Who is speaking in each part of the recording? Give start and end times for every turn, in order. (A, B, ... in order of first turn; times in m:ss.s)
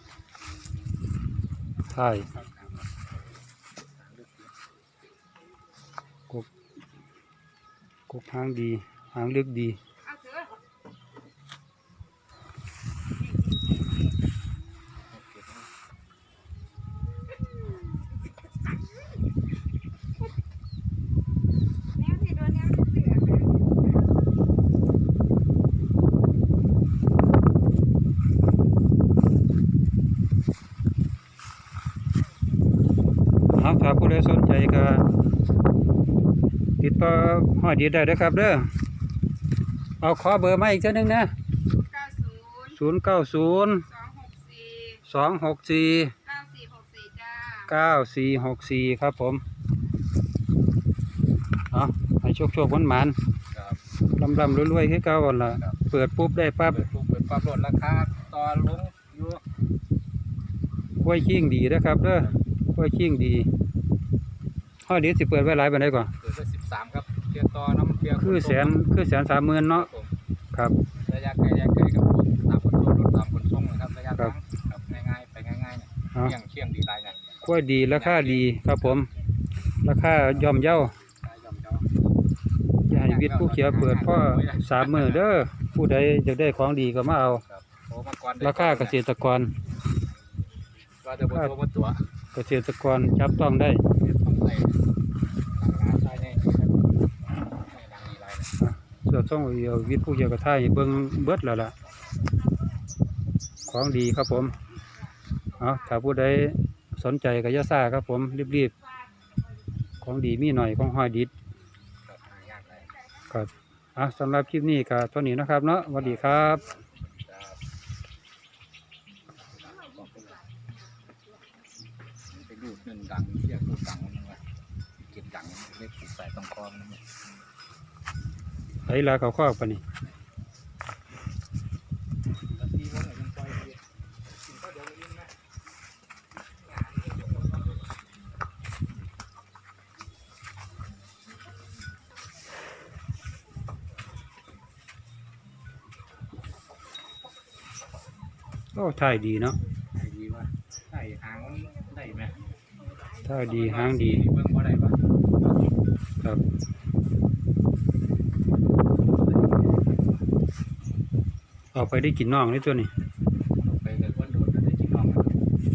0:01.9-0:02.3 A
0:02.2-0:02.9 B
0:04.0-0:04.5 B
0:08.1-0:09.8 A
0:10.1-0:10.5 C
0:13.3-0:13.9 C
0:15.1-0:15.7 B
0:22.0-0:23.8 C
0:33.5-0:35.0 A
0:36.8-0:38.7 A
0:40.0-0:41.3 A
0:41.7-0:42.7 C
0:42.7-0:43.9 A
0:43.9-0:45.0 C
0:45.0-0:46.2 A
0:46.2-0:47.6 C
0:47.6-0:49.4 A
0:51.7-0:53.2 A
0:53.5-0:53.8 B
0:54.2-0:56.8 A
0:55.4-0:55.8 B
0:56.7-0:59.4 B
1:01.0-1:03.5 A
1:04.8-1:06.1 A
1:06.2-1:08.8 B
1:08.2-1:09.9 A
1:09.7-1:10.1 B
1:11.1-1:17.3 B
1:17.4-1:19.1 A
1:17.8-1:19.0 B
1:19.8-1:20.9 A
1:20.4-1:21.9 B
1:22.9-1:27.4 A
1:22.9-1:25.3 B
1:27.4-1:29.0 B
1:28.4-1:29.5 A
1:31.0-1:32.0 B
1:32.3-1:33.8 A
1:34.0-1:34.8 B
1:35.6-1:38.6 B
1:38.6-1:41.7 A
1:43.7-1:44.6 A
1:45.6-1:48.8 A
1:50.0-1:51.3 A
1:52.1-1:52.9 B
1:53.3-1:56.6 A
1:56.0-1:57.6 B
1:59.4-2:00.4 B
2:02.3-2:04.4 B
2:05.0-2:07.0 B
2:08.9-2:09.8 A
2:12.5-2:15.3 B
2:16.6-2:17.8 B
2:28.8-2:29.6 A
2:29.9-2:32.4 B
2:33.2-2:34.2 A
2:33.3-2:35.0 B
2:39.1-2:40.2 B
2:41.7-2:42.9 A
2:43.6-2:45.4 B